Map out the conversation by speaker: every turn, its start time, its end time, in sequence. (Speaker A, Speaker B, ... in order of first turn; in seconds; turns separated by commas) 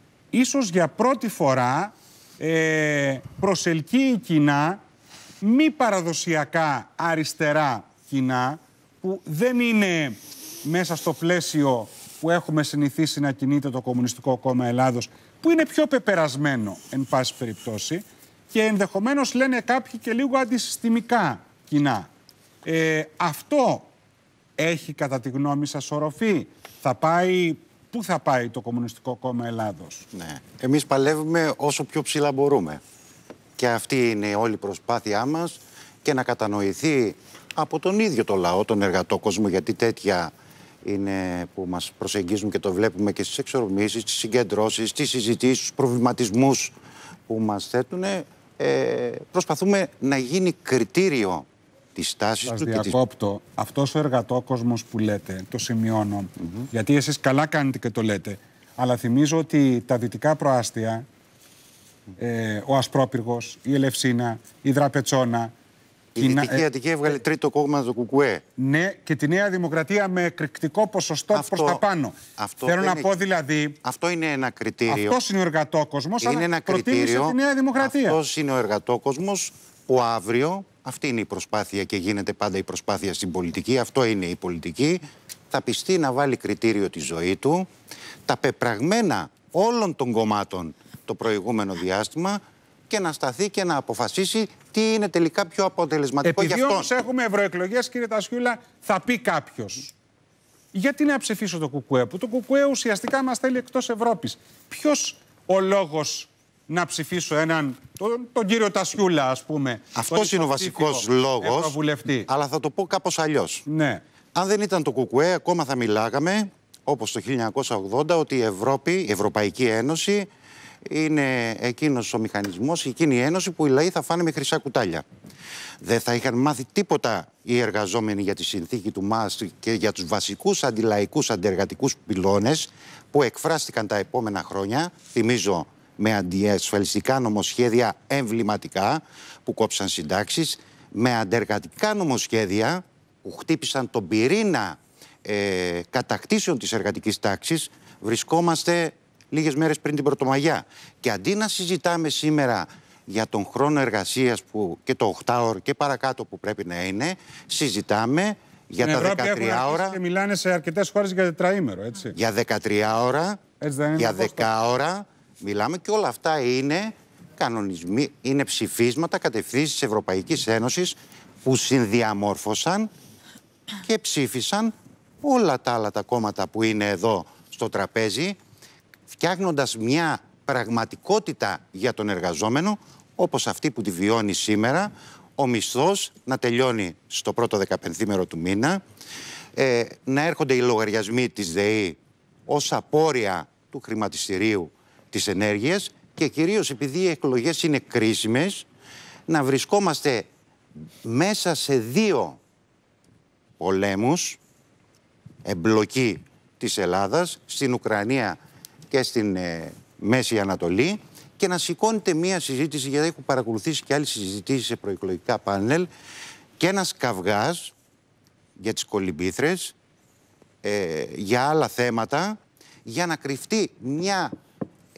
Speaker A: 0.3-4.8, Speaker A: 5.4-22.1, Speaker A: 22.6-23.9, Speaker A: 24.6-30.1, Speaker B: 30.1-32.8, Speaker B: 33.6-40.3, Speaker B: 40.8-46.7, Speaker B: 47.3-53.0, Speaker A: 52.5-61.0, Speaker A: 62.2-65.5, Speaker B: 66.2-68.4, Speaker A: 66.2-66.6, Speaker A: 68.6-73.8, Speaker B: 71.3-71.8, Speaker B: 72.4-73.1, Speaker B: 73.8-75.2, Speaker A: 74.9-78.2, Speaker B: 76.2-87.7, Speaker B: 88.3-96.9, Speaker A: 96.2-99.9, Speaker A: 100.7-112.3, Speaker B: 110.0-113.7, Speaker A: 113.7-114.0, Speaker B: 114.3-120.3, Speaker B: 120.9-125.0, Speaker B: 125.8-160.0, Speaker A: 158.8-162.2, Speaker B: 162.2-163.4, Speaker A: 163.6-164.5, Speaker B: 164.0-172.9, Speaker B: 173.8-178.4, Speaker B: 179.1-188.8, Speaker B: 189.6-198.7, Speaker B: 199.3-200.3, Speaker B: 201.0-202.4, Speaker B: 203.6-204.4, Speaker B: 205.4-208.4, Speaker B: 208.9-215.9, Speaker B: 216.6-217.7, Speaker B: 218.6-219.8, Speaker B: 220.6-224.3